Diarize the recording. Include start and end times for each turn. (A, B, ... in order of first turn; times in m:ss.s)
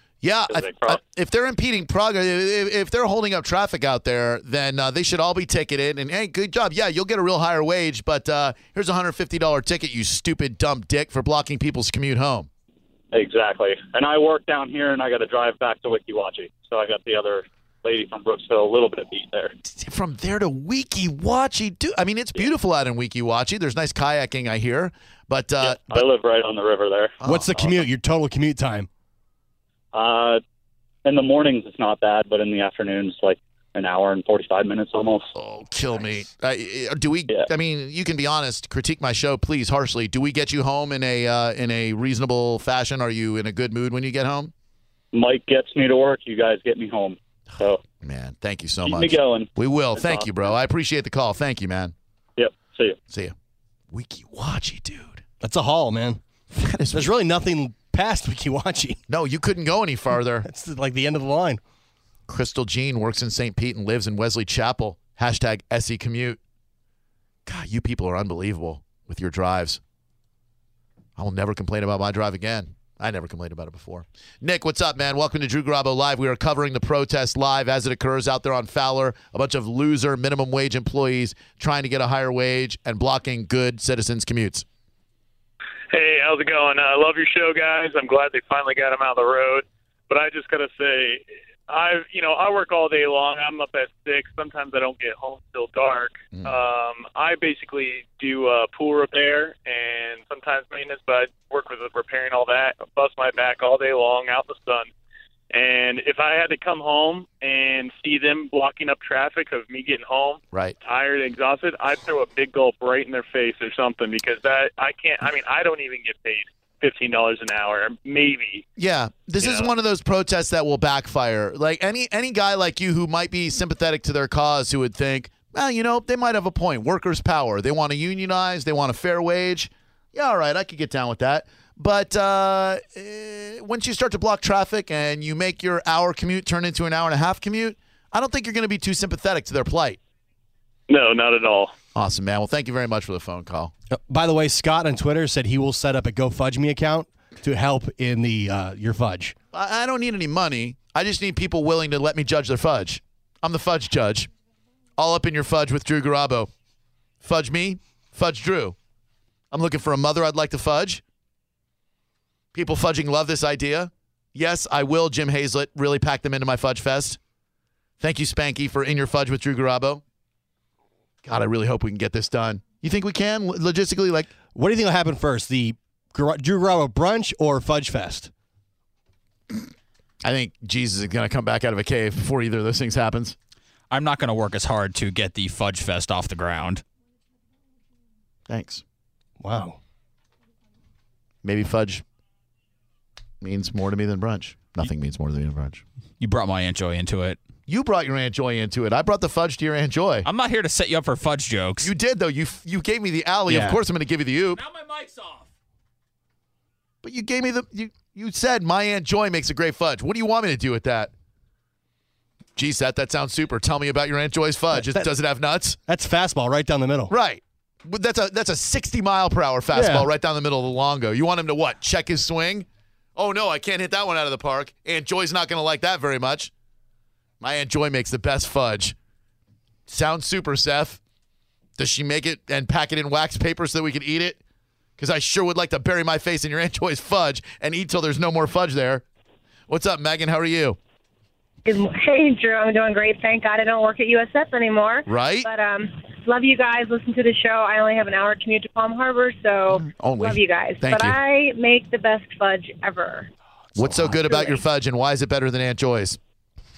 0:00.2-0:12.5 A
0:00.5-0:01.0 B
0:13.1-0:19.5 B
0:19.6-0:26.0 A
0:25.6-0:27.2 B
0:27.2-0:27.8 A
0:27.2-0:28.9 C
0:29.9-0:30.4 B
0:31.0-0:35.3 B
0:35.3-0:44.5 A
0:45.1-0:47.8 B
0:48.0-0:51.9 A
0:48.8-0:50.5 B
0:52.4-0:53.0 B
0:53.9-0:55.2 A
0:55.4-0:56.2 C
0:56.5-0:57.1 A
0:56.9-0:59.0 C
0:59.1-1:00.5 A
1:00.3-1:01.6 C
1:02.3-1:06.4 A
1:07.4-1:09.8 A
1:11.2-1:24.6 A
1:25.9-1:44.9 D
1:36.3-1:36.6 A
1:45.5-1:58.6 D
1:58.8-2:20.0 A
2:20.9-2:21.7 D
2:21.9-2:23.7 A
2:23.9-2:29.3 C
2:29.5-2:34.3 A
2:35.0-2:36.5 A
2:37.2-2:38.8 A
2:39.5-2:41.0 A
2:42.5-2:47.2 A
2:48.0-2:50.0 A
2:51.2-2:54.3 A
2:54.5-2:58.3 C
3:00.2-3:03.4 A
3:03.9-3:06.8 E
3:08.5-3:08.8 A
3:09.4-3:09.8 C
3:11.4-3:12.0 A
3:13.4-3:15.8 A
3:16.2-3:17.4 E
3:17.7-3:20.3 A
3:20.2-3:21.9 E
3:21.8-3:24.6 A
3:23.5-3:23.8 C
3:24.5-3:25.5 E
3:27.0-3:31.1 A
3:32.6-3:35.8 A
3:34.7-3:35.1 C
3:35.9-3:37.1 C
3:37.1-3:46.5 A
3:39.7-3:40.1 C
3:47.4-3:49.0 A
3:49.9-3:51.0 A
3:51.8-3:54.4 A
3:55.0-3:59.0 A
3:59.7-4:00.8 A
4:01.6-4:13.3 F
4:05.1-4:05.5 A
4:09.7-4:11.2 A
4:13.8-4:16.2 A
4:13.8-4:14.1 C
4:14.2-4:14.6 F